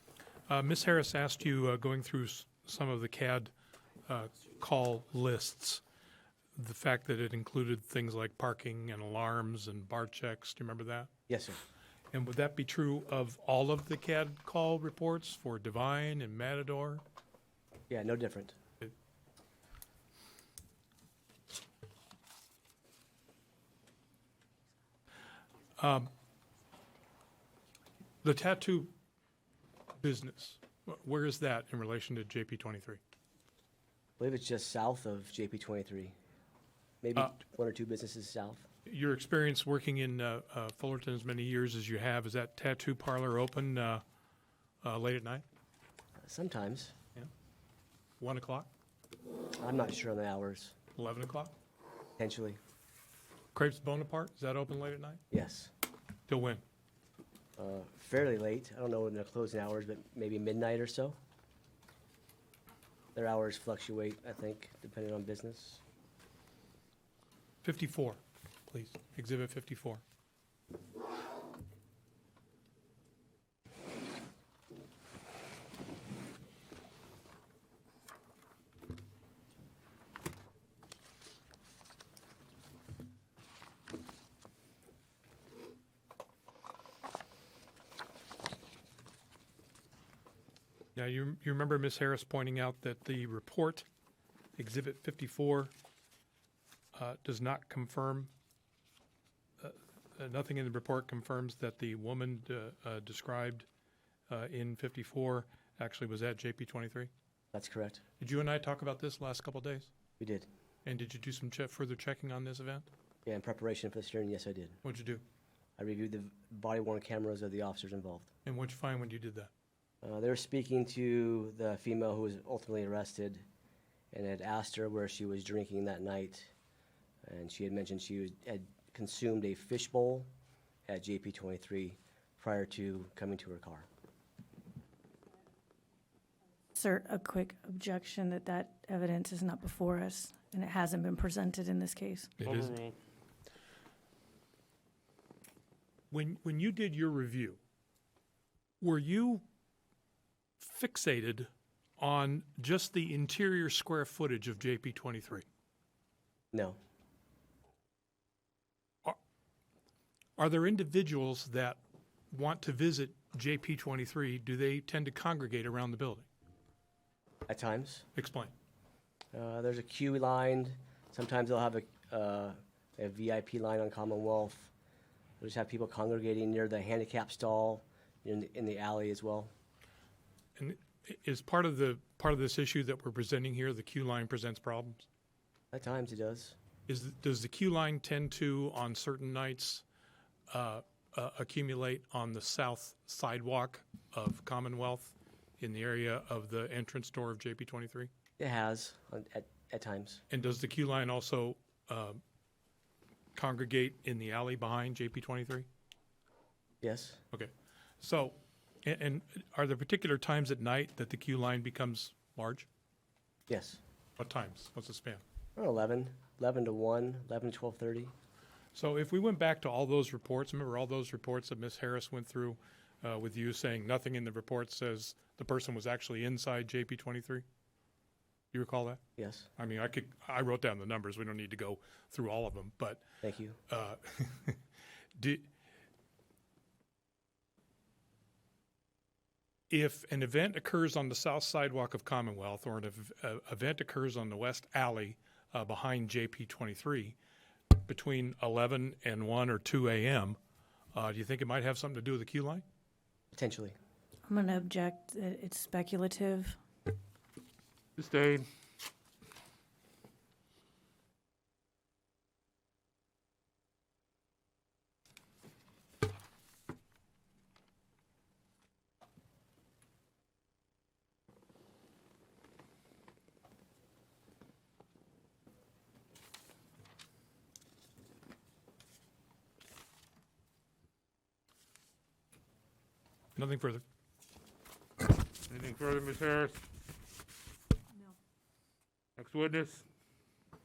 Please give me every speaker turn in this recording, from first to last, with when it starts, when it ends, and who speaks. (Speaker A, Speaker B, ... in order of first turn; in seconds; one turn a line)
Speaker A: 0.5-3.5
Speaker A: 4.1-5.8
Speaker A: 6.6-11.1
Speaker B: 11.3-11.6
Speaker A: 12.1-17.0
Speaker B: 17.9-18.6
Speaker A: 25.8-26.1
Speaker A: 28.2-28.9
Speaker A: 30.0-33.0
Speaker B: 34.2-36.1
Speaker B: 37.0-38.7
Speaker A: 38.9-44.0
Speaker A: 44.8-45.4
Speaker B: 46.2-46.9
Speaker A: 48.2-48.7
Speaker B: 49.6-50.8
Speaker A: 51.0-51.5
Speaker B: 52.2-52.6
Speaker A: 53.5-55.2
Speaker B: 55.3-55.7
Speaker A: 56.3-56.6
Speaker B: 57.6-61.2
Speaker B: 63.1-65.8
Speaker A: 67.6-70.0
Speaker A: 91.0-93.9
Speaker A: 94.6-95.7
Speaker A: 97.0-98.3
Speaker A: 99.6-103.7
Speaker A: 104.3-107.1
Speaker B: 107.5-108.0
Speaker A: 108.2-109.9
Speaker B: 110.2-110.5
Speaker A: 110.8-112.9
Speaker B: 113.3-114.8
Speaker A: 114.8-115.2
Speaker B: 115.8-118.3
Speaker A: 118.5-119.5
Speaker B: 120.0-123.4
Speaker B: 124.1-126.5
Speaker B: 127.2-130.3
Speaker B: 130.9-133.9
Speaker C: 136.8-142.3
Speaker A: 142.4-142.8
Speaker D: 142.4-143.0
Speaker A: 146.1-147.6
Speaker A: 148.8-149.4
Speaker A: 150.6-155.5
Speaker B: 156.5-156.8
Speaker A: 160.4-161.8
Speaker A: 162.3-166.3
Speaker B: 167.5-168.1
Speaker A: 168.2-168.5
Speaker B: 169.3-174.7
Speaker B: 175.4-179.5
Speaker A: 180.6-185.1
Speaker B: 185.7-186.6
Speaker A: 186.9-189.8
Speaker A: 190.5-198.1
Speaker B: 198.4-200.2
Speaker A: 200.3-202.2
Speaker A: 203.3-205.7
Speaker B: 206.8-207.2
Speaker A: 207.3-212.7
Speaker B: 213.5-213.8
Speaker A: 214.2-215.2
Speaker B: 215.6-218.1
Speaker A: 218.7-227.4
Speaker A: 228.5-229.0
Speaker B: 229.2-229.5
Speaker A: 229.6-233.0
Speaker B: 233.2-233.6
Speaker A: 233.7-234.6
Speaker A: 235.2-235.5
Speaker A: 239.7-247.2
Speaker A: 247.8-250.4
Speaker A: 250.9-252.6
Speaker B: 253.3-253.8
Speaker C: 254.3-256.6
Speaker D: 258.0-258.5
Speaker A: 283.4-283.8
Speaker D: 285.5-286.6
Speaker D: 289.2-289.9